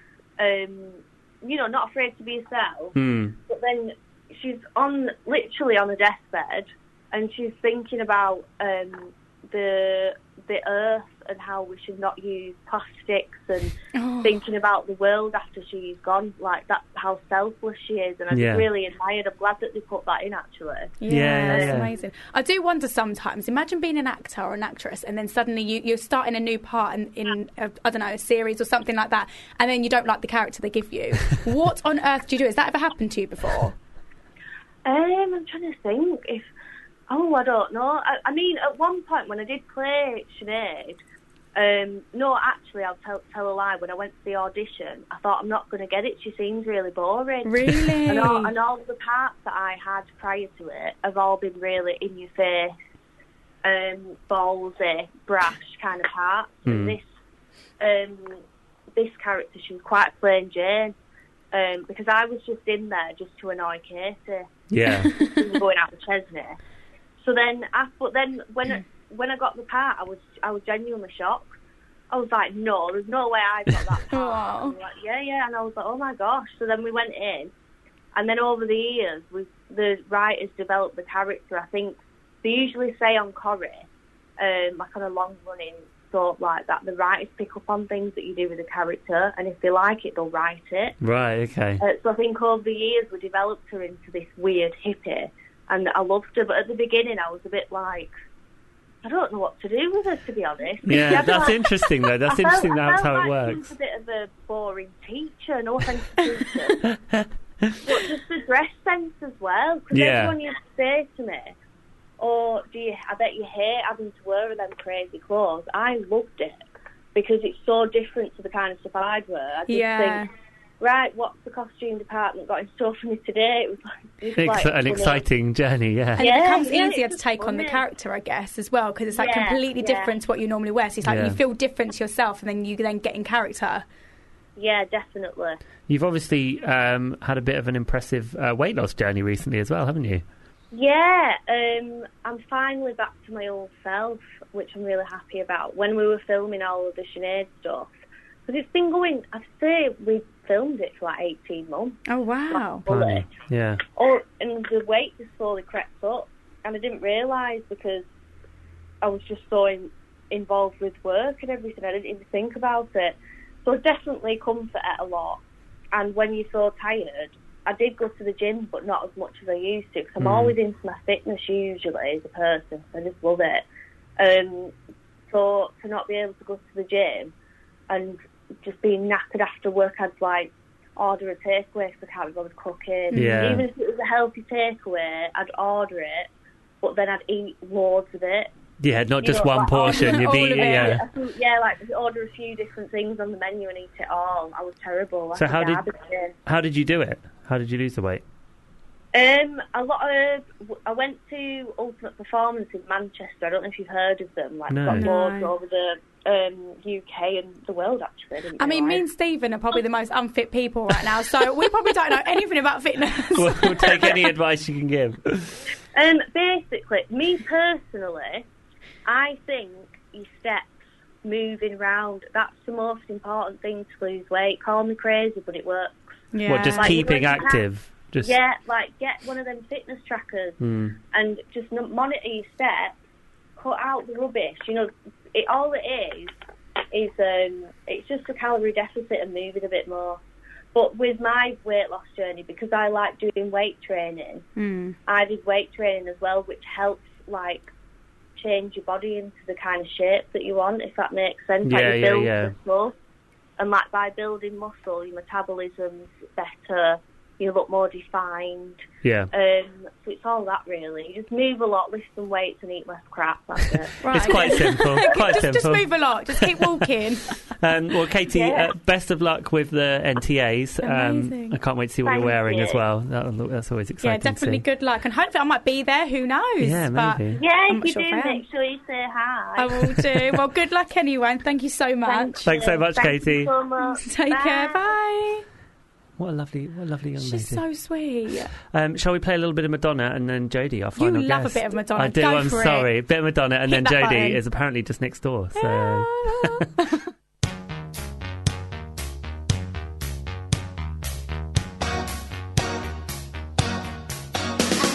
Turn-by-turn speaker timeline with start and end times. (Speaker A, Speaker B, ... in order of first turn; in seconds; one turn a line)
Speaker A: 0.4-21.8
Speaker B: 2.9-3.3
Speaker C: 13.9-14.4
Speaker B: 18.3-18.7
Speaker C: 21.0-33.8
Speaker B: 21.1-21.9
Speaker A: 34.8-36.5
Speaker A: 37.1-41.0
Speaker A: 41.5-52.7
Speaker C: 47.4-48.5
Speaker A: 53.6-57.0
Speaker B: 56.6-57.0
Speaker A: 57.8-58.4
Speaker A: 58.9-60.9
Speaker A: 61.5-66.6
Speaker B: 64.7-65.1
Speaker A: 67.2-71.5
Speaker A: 72.1-77.5
Speaker C: 74.1-74.8
Speaker A: 78.1-83.8
Speaker A: 84.4-91.0
Speaker B: 91.0-91.8
Speaker A: 91.8-98.1
Speaker A: 99.0-106.8
Speaker B: 100.8-103.7
Speaker B: 106.8-108.0
Speaker A: 107.8-111.5
Speaker B: 109.9-110.3
Speaker A: 112.2-120.2
Speaker C: 119.7-120.3
Speaker A: 120.8-125.2
Speaker B: 124.3-126.3
Speaker A: 126.2-127.8
Speaker C: 126.2-133.8
Speaker A: 129.1-130.1
Speaker B: 131.0-131.4
Speaker A: 134.6-135.6
Speaker B: 135.9-140.2
Speaker A: 140.7-147.9
Speaker A: 148.5-153.3
Speaker C: 152.1-152.8
Speaker B: 152.8-153.8
Speaker A: 153.9-158.1
Speaker A: 159.0-165.4
Speaker A: 165.9-173.6
Speaker B: 170.2-170.6
Speaker A: 174.2-174.7
Speaker A: 175.3-177.3
Speaker A: 177.9-186.3
Speaker C: 183.1-183.6
Speaker B: 183.1-183.7
Speaker A: 186.8-188.5
Speaker B: 188.8-191.1
Speaker A: 189.2-196.3
Speaker C: 189.8-191.0
Speaker B: 195.3-195.8
Speaker B: 196.4-198.2
Speaker A: 199.1-209.0
Speaker B: 204.7-205.1
Speaker C: 204.9-205.5
Speaker C: 208.6-214.2
Speaker B: 213.3-215.6
Speaker A: 215.9-218.4
Speaker A: 219.1-226.1
Speaker C: 226.3-227.5
Speaker B: 226.4-228.3
Speaker A: 226.6-227.6
Speaker A: 228.2-230.6
Speaker B: 230.6-230.9
Speaker A: 231.1-233.0
Speaker A: 233.6-236.3
Speaker A: 236.9-240.2
Speaker A: 240.7-244.5
Speaker C: 244.6-245.0
Speaker A: 245.1-247.7
Speaker A: 248.3-252.9
Speaker B: 251.6-252.5
Speaker A: 253.6-265.0
Speaker B: 259.0-259.3
Speaker C: 264.0-267.3
Speaker B: 264.1-266.9
Speaker B: 267.5-274.6
Speaker A: 268.3-268.7
Speaker C: 270.8-271.6
Speaker A: 272.0-272.8
Speaker C: 274.0-278.4
Speaker B: 276.6-277.4
Speaker A: 277.4-279.8
Speaker C: 279.6-282.5
Speaker B: 280.0-280.2
Speaker A: 282.0-284.9
Speaker B: 282.4-283.5
Speaker C: 283.9-285.4
Speaker B: 286.2-287.6
Speaker C: 287.2-288.5
Speaker B: 288.6-296.7
Speaker C: 291.0-292.9
Speaker C: 293.7-294.4
Speaker C: 295.6-297.0